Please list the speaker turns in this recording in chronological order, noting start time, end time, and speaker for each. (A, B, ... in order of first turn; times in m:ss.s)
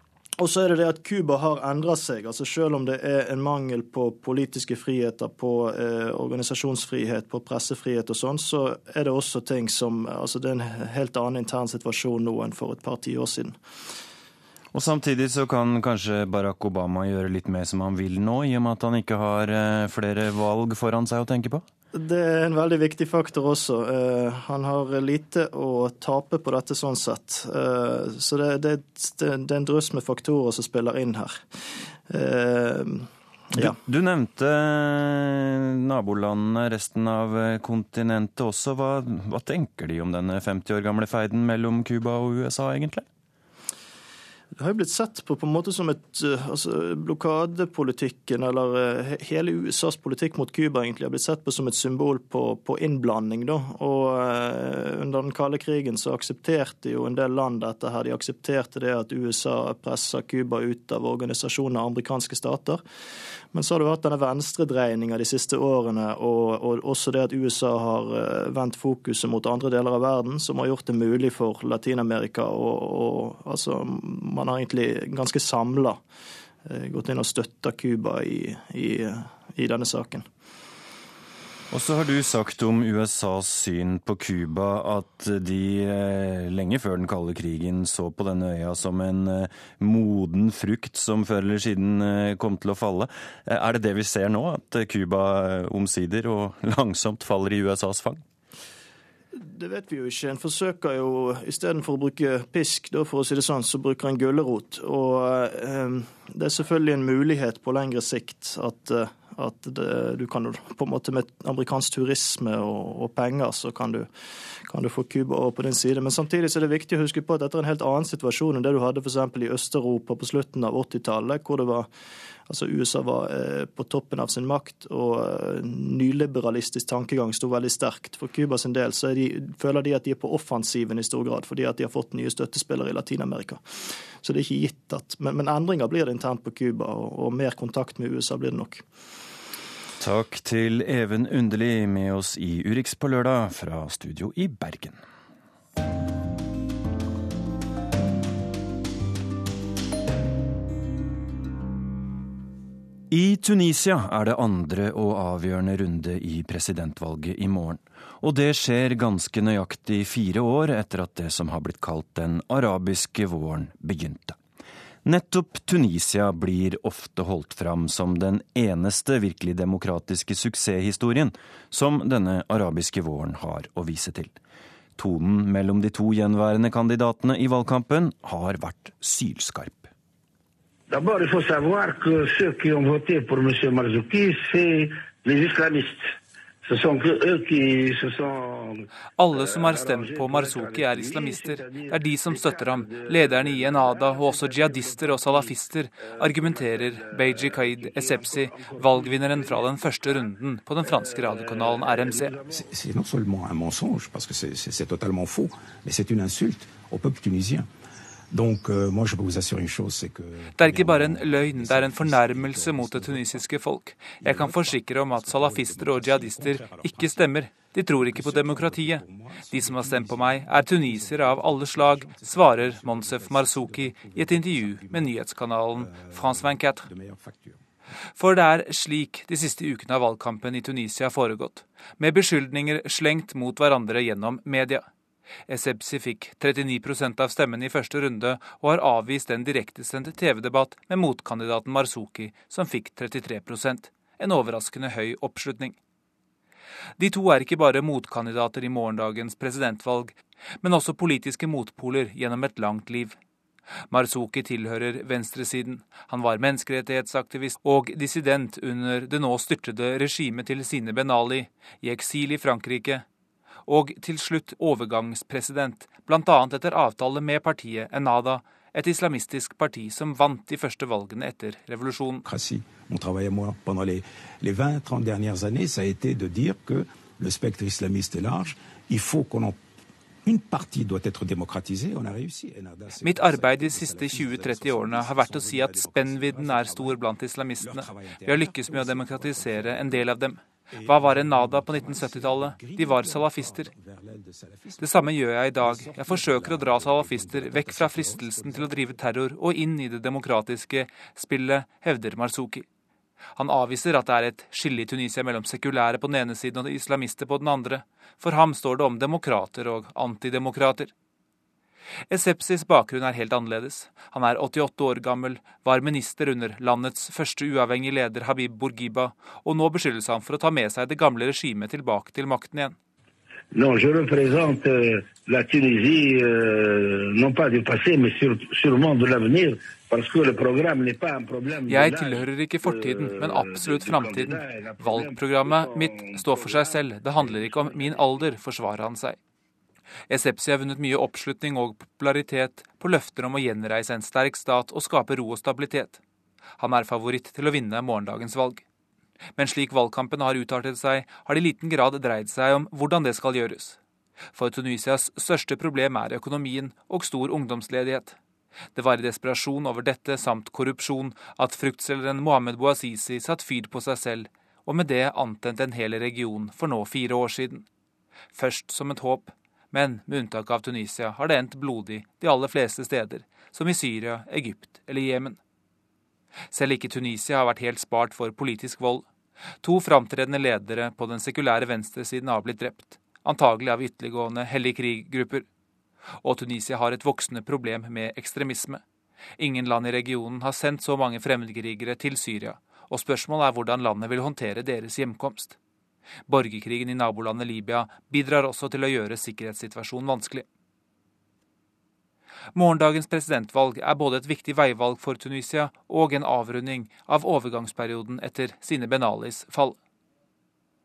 0:00.4-0:13.6 A
0:14.7-0:21.6 B
0:21.9-0:31.4 A
0:32.1-0:33.7 A
0:33.6-0:43.0 B
0:44.6-1:02.8 A
1:03.5-1:16.0 A
1:16.6-1:20.2 A
1:21.7-1:38.2 B
1:39.3-1:54.1 A
1:54.7-2:01.9 A
2:02.5-2:13.6 A
2:14.2-2:18.8 A
2:20.0-2:25.0 B
2:33.1-2:44.4 B
2:45.0-2:54.4 B
2:55.0-2:59.9 B
3:00.9-3:06.1 C
3:06.6-3:15.1 C
3:09.2-3:22.3 D
3:16.2-3:18.8 C
3:21.1-3:22.4 C
3:22.5-3:27.7 E
3:28.3-3:33.5 E
3:30.6-3:46.9 D
3:34.1-3:37.3 E
3:37.9-3:47.6 E
3:48.2-3:54.8 D
3:55.5-4:05.8 D
4:07.0-4:13.2 D
4:13.9-4:23.0 D
4:23.7-4:32.2 D
4:32.2-4:39.6 E
4:40.2-4:47.0 E
4:43.0-4:53.7 D
4:47.6-4:50.1 E
4:50.7-4:59.0 E
4:54.8-5:02.6 D
5:03.4-5:10.9 D
5:12.1-5:22.7 D
5:23.5-5:38.1 C
5:31.7-5:39.2 D
5:40.1-5:46.0 D
5:46.6-5:48.6 D
5:49.4-5:53.8 D
5:54.3-5:58.2 D
5:58.8-6:07.6 D
6:08.3-6:15.4 D
6:16.5-6:19.0 D
6:19.6-6:25.4 D
6:26.2-6:28.8 D
6:29.4-6:35.6 D
6:36.3-6:40.4 D
6:42.5-6:49.8 D